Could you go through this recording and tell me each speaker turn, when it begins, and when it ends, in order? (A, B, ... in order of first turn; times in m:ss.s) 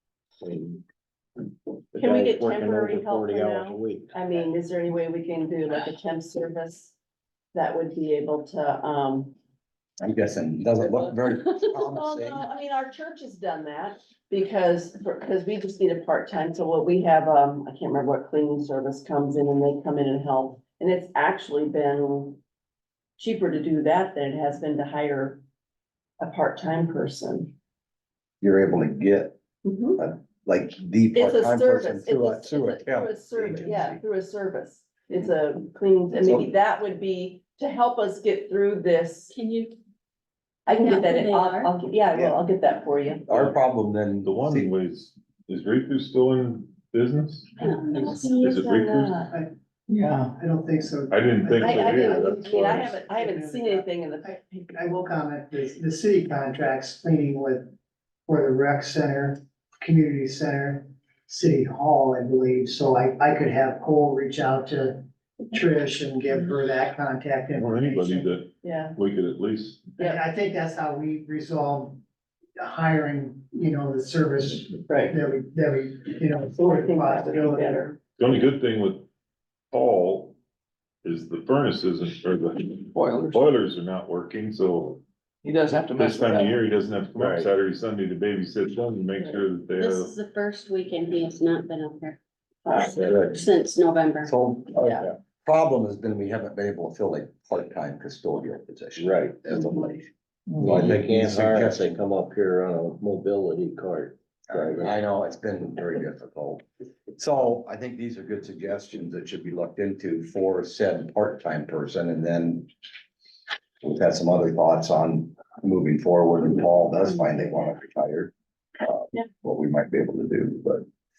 0:00.4-0:00.8 A
0:01.9-0:04.2 A
0:02.0-0:06.9 B
0:07.5-0:09.3 B
0:10.0-0:12.4 C
0:10.9-0:22.4 B
0:23.2-0:25.4 B
0:26.2-0:27.5 B
0:28.4-0:29.4 C
0:29.6-0:30.0 B
0:30.0-0:34.0 C
0:31.1-0:39.4 B
0:36.2-0:36.5 C
0:39.3-0:39.8 D
0:40.7-0:43.3 B
0:40.8-0:41.7 D
0:42.1-0:42.4 C
0:43.3-0:44.7 C
0:43.3-0:43.6 E
0:44.2-0:49.3 E
0:47.6-0:49.3 D
0:48.1-0:49.0 B
0:49.2-0:49.5 F
0:49.9-0:50.4 G
0:50.3-0:57.7 F
0:51.1-0:53.0 E
0:51.6-0:55.0 B
0:58.3-1:08.4 F
1:07.5-1:09.9 E
1:08.6-1:09.0 B
1:10.0-1:10.3 B
1:10.0-1:12.0 F
1:12.6-1:17.9 F
1:14.9-1:15.1 B
1:16.5-1:18.0 B
1:18.2-1:19.1 E
1:19.7-1:20.4 E
1:21.0-1:25.0 E
1:22.9-1:23.5 G
1:25.4-1:26.6 G
1:26.0-1:30.1 E
1:27.1-1:27.5 A
1:29.8-1:32.2 D
1:32.6-1:33.0 B
1:32.7-1:33.5 C
1:32.7-1:34.3 D
1:34.2-1:40.1 C
1:34.8-1:35.1 B
1:39.0-1:39.5 A
1:39.5-1:39.9 B
1:40.5-1:40.8 G
1:40.6-1:45.0 A
1:40.6-1:41.9 C
1:44.5-1:52.7 C
1:53.8-2:00.8 C